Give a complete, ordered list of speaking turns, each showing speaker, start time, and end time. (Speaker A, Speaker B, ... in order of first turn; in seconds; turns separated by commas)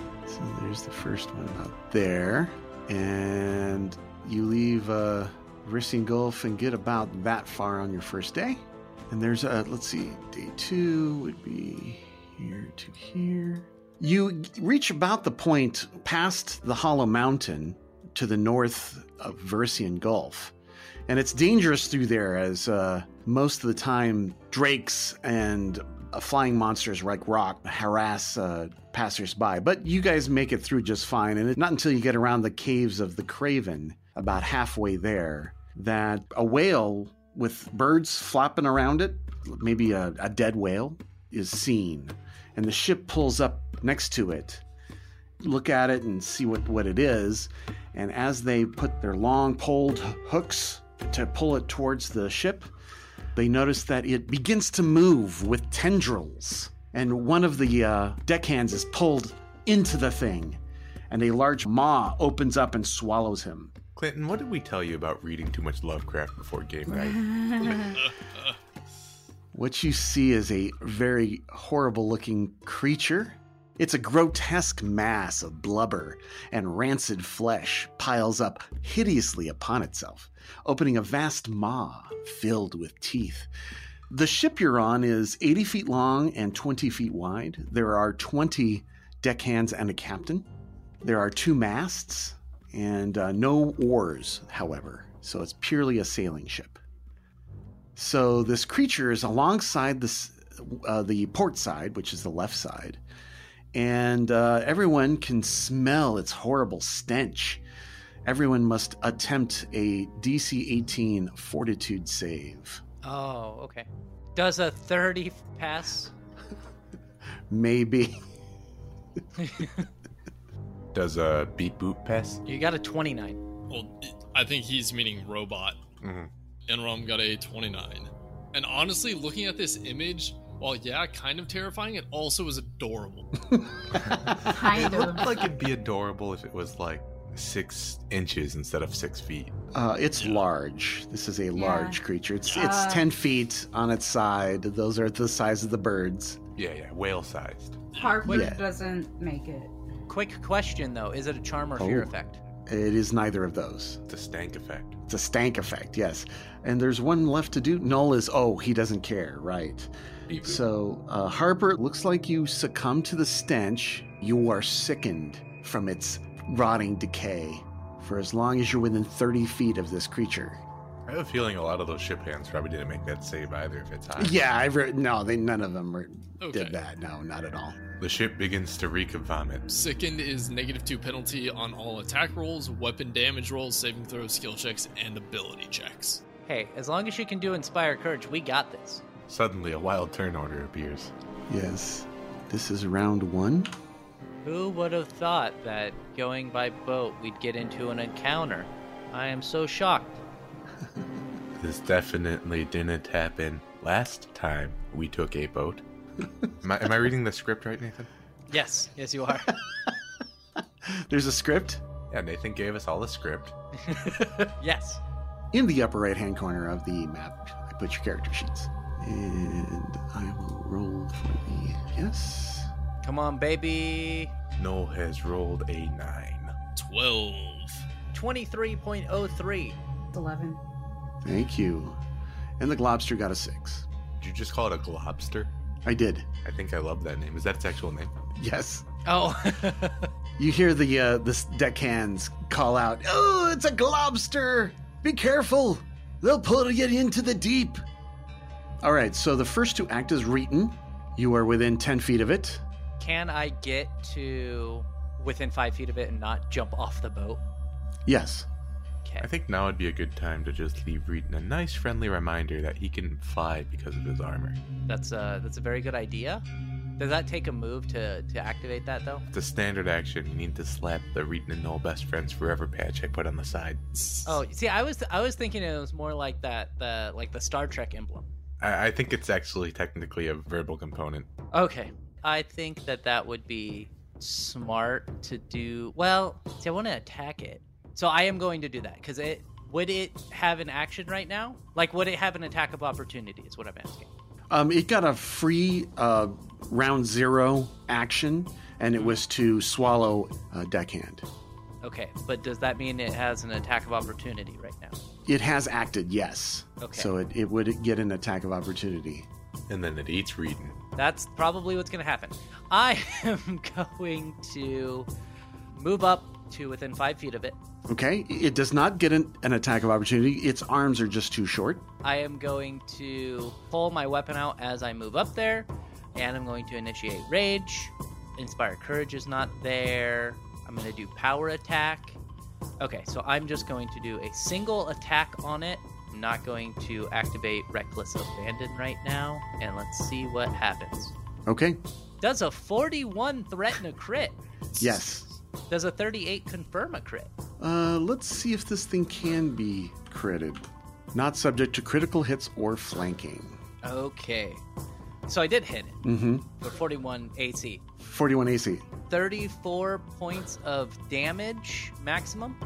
Speaker A: 0.2-20.5, Speaker A: 21.1-44.6, Speaker A: 45.4-52.7, Speaker A: 53.3-63.7, Speaker B: 64.0-67.9, Speaker C: 66.9-68.0, Speaker D: 67.6-68.6, Speaker A: 69.5-83.5, Speaker A: 84.1-90.5, Speaker A: 91.0-96.8, Speaker A: 98.0-103.0, Speaker A: 103.7-107.6, Speaker A: 108.2-112.8, Speaker E: 113.0-116.1, Speaker A: 117.5-118.2, Speaker E: 119.4-119.7, Speaker B: 120.9-122.4, Speaker E: 122.4-123.4, Speaker D: 123.7-125.8, Speaker B: 126.0-126.3, Speaker D: 126.7-133.3, Speaker A: 133.5-134.1, Speaker B: 133.9-139.5, Speaker C: 134.4-135.5, Speaker A: 139.7-146.4, Speaker C: 141.5-143.1, Speaker B: 146.6-147.8, Speaker D: 147.9-148.5, Speaker C: 147.9-149.7, Speaker A: 148.2-148.6, Speaker E: 150.1-152.4, Speaker A: 151.8-152.1, Speaker A: 152.7-154.0, Speaker B: 154.1-155.0, Speaker A: 155.1-159.9, Speaker B: 160.3-160.6, Speaker A: 160.4-170.6, Speaker B: 171.1-174.4, Speaker A: 174.2-177.8, Speaker D: 176.4-176.8, Speaker B: 178.0-179.7, Speaker D: 179.7-186.2, Speaker E: 186.5-189.0, Speaker B: 189.3-191.1, Speaker A: 191.5-193.7, Speaker E: 194.4-200.2, Speaker B: 201.6-205.8, Speaker B: 206.6-208.1, Speaker E: 208.5-209.5, Speaker A: 210.8-211.8, Speaker B: 212.1-213.5, Speaker E: 213.8-215.0, Speaker A: 215.5-222.7, Speaker E: 223.0-224.3, Speaker B: 224.6-226.5, Speaker D: 226.8-227.8, Speaker E: 228.1-229.8, Speaker C: 230.1-230.6, Speaker A: 231.2-232.0, Speaker A: 232.6-233.8, Speaker B: 234.2-235.5, Speaker A: 235.8-236.3, Speaker B: 236.4-238.1, Speaker A: 238.3-238.8, Speaker E: 239.0-240.1, Speaker A: 240.4-247.8, Speaker A: 248.8-252.6, Speaker E: 253.0-257.4, Speaker A: 258.1-258.5, Speaker B: 259.2-264.6, Speaker E: 264.9-266.4, Speaker E: 267.0-269.2, Speaker B: 269.3-273.8, Speaker E: 274.2-278.3, Speaker B: 278.6-281.3, Speaker E: 281.5-294.1, Speaker A: 294.5-301.2, Speaker E: 301.8-305.0, Speaker A: 305.2-309.3, Speaker E: 306.8-307.1, Speaker B: 309.7-310.8, Speaker E: 310.9-315.1, Speaker E: 315.7-317.6, Speaker A: 317.9-321.9, Speaker E: 322.0-332.2, Speaker E: 332.8-341.1, Speaker A: 341.4-341.8, Speaker E: 342.2-344.4, Speaker D: 344.7-345.0, Speaker A: 344.8-345.2, Speaker E: 345.7-347.3, Speaker A: 347.6-353.6, Speaker E: 353.8-354.6, Speaker E: 355.3-356.0, Speaker A: 356.0-356.5, Speaker E: 356.6-357.8, Speaker A: 358.0-358.8, Speaker E: 359.1-362.6